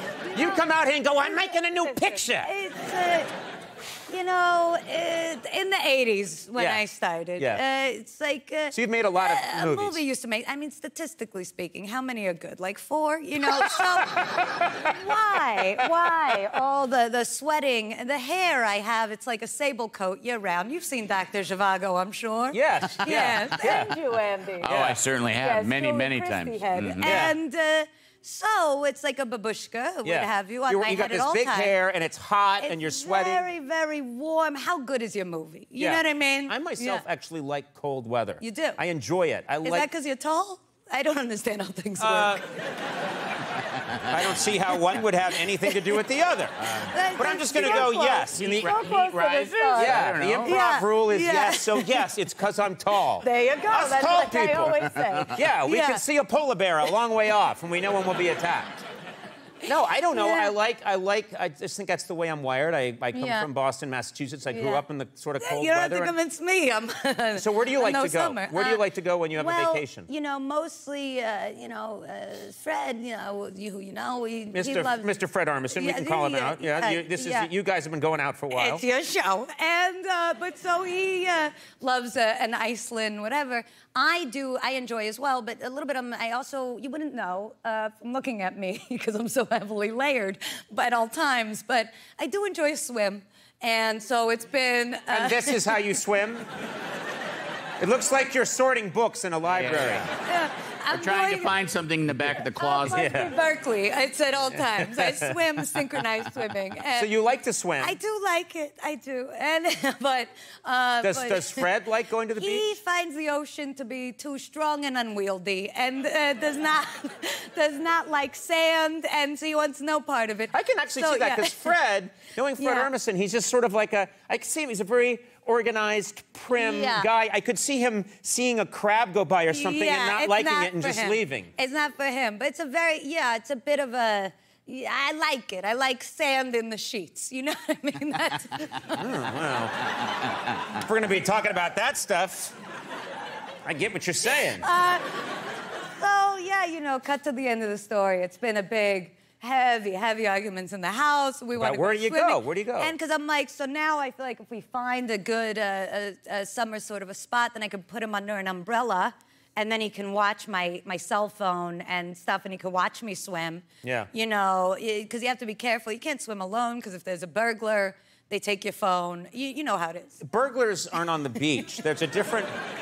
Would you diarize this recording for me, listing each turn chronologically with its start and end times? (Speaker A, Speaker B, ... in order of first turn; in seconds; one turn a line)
Speaker A: 0.3-0.6
Speaker B: 0.3-2.5
Speaker A: 1.9-3.3
Speaker A: 4.1-24.8
Speaker B: 6.6-6.8
Speaker B: 8.7-10.0
Speaker B: 13.5-14.2
Speaker B: 22.5-24.0
Speaker C: 24.6-27.3
Speaker B: 24.7-25.0
Speaker A: 25.4-31.7
Speaker B: 27.0-27.4
Speaker B: 30.0-33.5
Speaker A: 32.6-37.0
Speaker B: 35.8-39.9
Speaker A: 38.4-38.8
Speaker A: 39.6-42.4
Speaker B: 42.0-42.4
Speaker B: 44.0-48.7
Speaker A: 45.6-46.0
Speaker A: 46.7-52.0
Speaker C: 48.5-50.6
Speaker B: 49.7-58.8
Speaker A: 53.2-56.0
Speaker B: 59.6-66.1
Speaker A: 60.1-60.5
Speaker A: 63.1-63.5
Speaker A: 64.5-64.8
Speaker A: 65.4-77.5
Speaker B: 67.3-70.1
Speaker B: 74.5-78.8
Speaker A: 78.5-95.8
Speaker B: 95.1-96.5
Speaker B: 97.8-100.1
Speaker C: 99.5-100.1
Speaker A: 100.2-101.5
Speaker C: 100.9-103.1
Speaker A: 102.5-107.1
Speaker B: 102.9-103.3
Speaker B: 104.5-105.4
Speaker B: 106.9-108.0
Speaker A: 107.8-111.7
Speaker B: 111.0-112.7
Speaker A: 112.4-121.7
Speaker B: 120.5-131.5
Speaker A: 122.6-122.9
Speaker A: 126.5-127.1
Speaker A: 129.5-139.2
Speaker B: 138.9-139.8
Speaker B: 140.5-142.5
Speaker B: 143.6-144.7
Speaker A: 144.3-145.3
Speaker A: 146.0-170.2
Speaker B: 151.5-152.9
Speaker B: 163.8-164.1
Speaker B: 170.2-172.5